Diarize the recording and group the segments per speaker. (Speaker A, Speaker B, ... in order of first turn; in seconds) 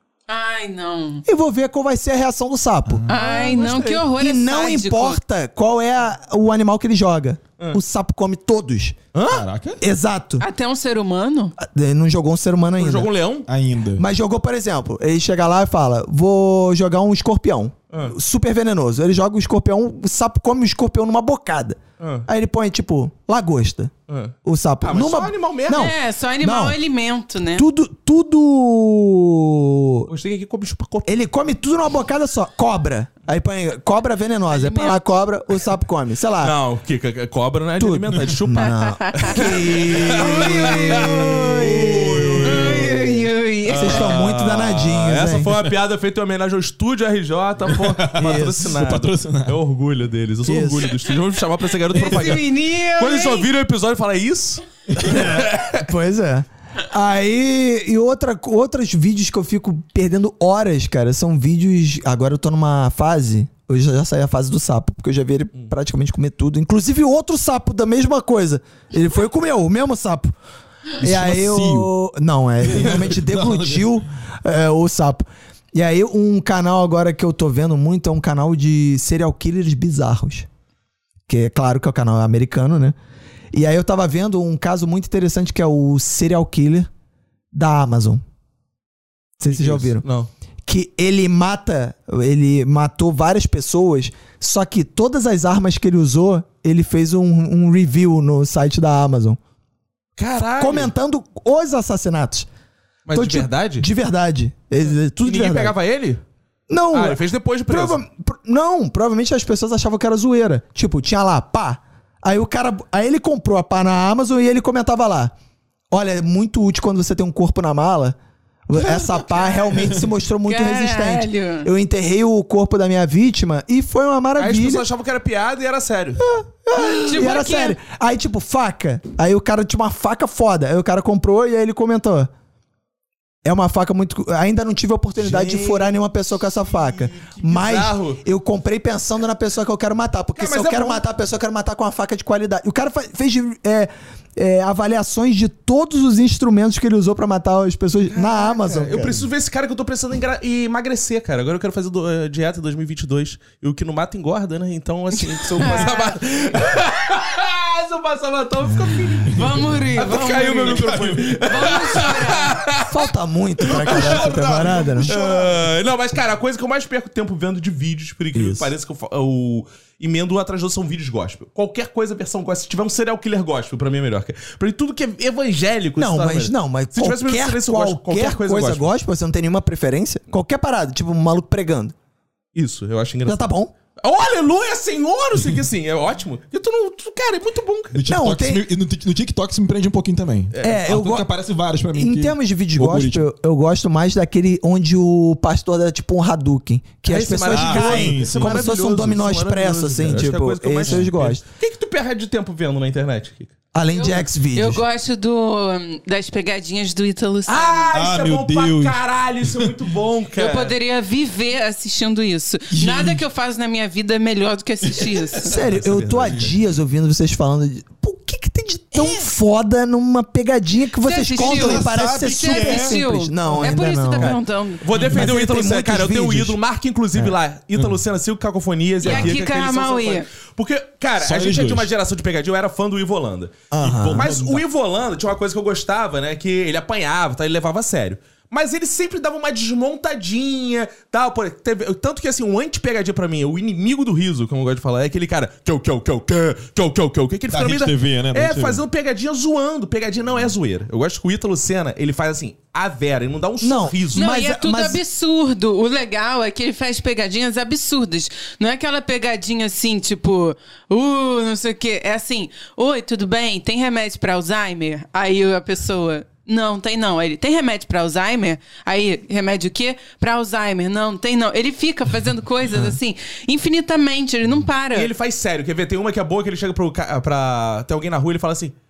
Speaker A: 0.3-1.2, 3.1-5.2, 10.4-11.6, 25.7-27.6, 34.5-35.0, 38.6-39.5, 40.0-41.7, 42.5-44.2, 51.9-53.5, 120.4-121.7, 126.7-127.8, 155.6-156.1, 159.3-162.6, 203.9-207.9, 210.3-215.6, 218.9-219.3, 221.0-224.8, 229.0-230.2, 254.1-275.1
Speaker B: 1.2-9.0, 9.8-10.4, 11.6-13.1, 14.0-23.9, 24.4-26.8, 27.6-30.1, 31.0-36.5, 37.8-43.0, 43.7-45.6, 48.2-48.7, 50.4-51.0, 55.1-70.3, 71.0-80.5, 81.3-83.0, 83.5-86.9, 87.5-88.2, 89.4-90.0, 90.7-99.4, 100.6-102.5, 103.1-105.7, 106.7-115.3, 115.9-124.8, 126.2-132.3, 133.4-149.2, 158.6-159.4, 162.9-165.1, 168.3-168.7, 175.9-181.9, 183.2-183.7, 188.1-188.6, 190.6-191.3, 191.9-201.4, 203.7-204.8, 215.4-224.4, 224.9-226.6, 233.7-234.3, 253.6-255.0
Speaker C: 2.9-3.1, 9.3-9.8, 13.5-14.1, 41.6-42.9, 47.7-49.6, 54.9-55.4, 71.0-71.9, 72.6-73.9, 118.8-120.1, 135.2-135.9, 136.7-137.3, 160.2-161.4, 163.7-165.6, 187.9-193.2, 197.5-198.7, 200.9-201.2, 207.9-209.7, 212.7-213.2, 214.8-215.7, 216.2-216.5, 221.3-223.7, 224.9-225.3, 231.2-231.9, 233.8-234.6, 247.5-248.8
Speaker D: 3.1-4.0, 9.1-9.4, 12.8-13.5, 22.0-22.3, 24.1-25.9, 30.1-31.2, 36.4-55.9, 89.5-90.3, 100.2-100.9, 103.0-103.8, 105.2-106.2, 106.9-108.0, 124.4-126.2, 137.4-138.2, 140.3-141.0, 148.1-163.1, 163.7-164.4, 165.0-178.9, 182.5-183.5, 184.0-188.0, 190.5-190.8, 197.1-203.5, 207.4-210.7, 215.6-216.5, 224.8-254.3, 274.9-278.7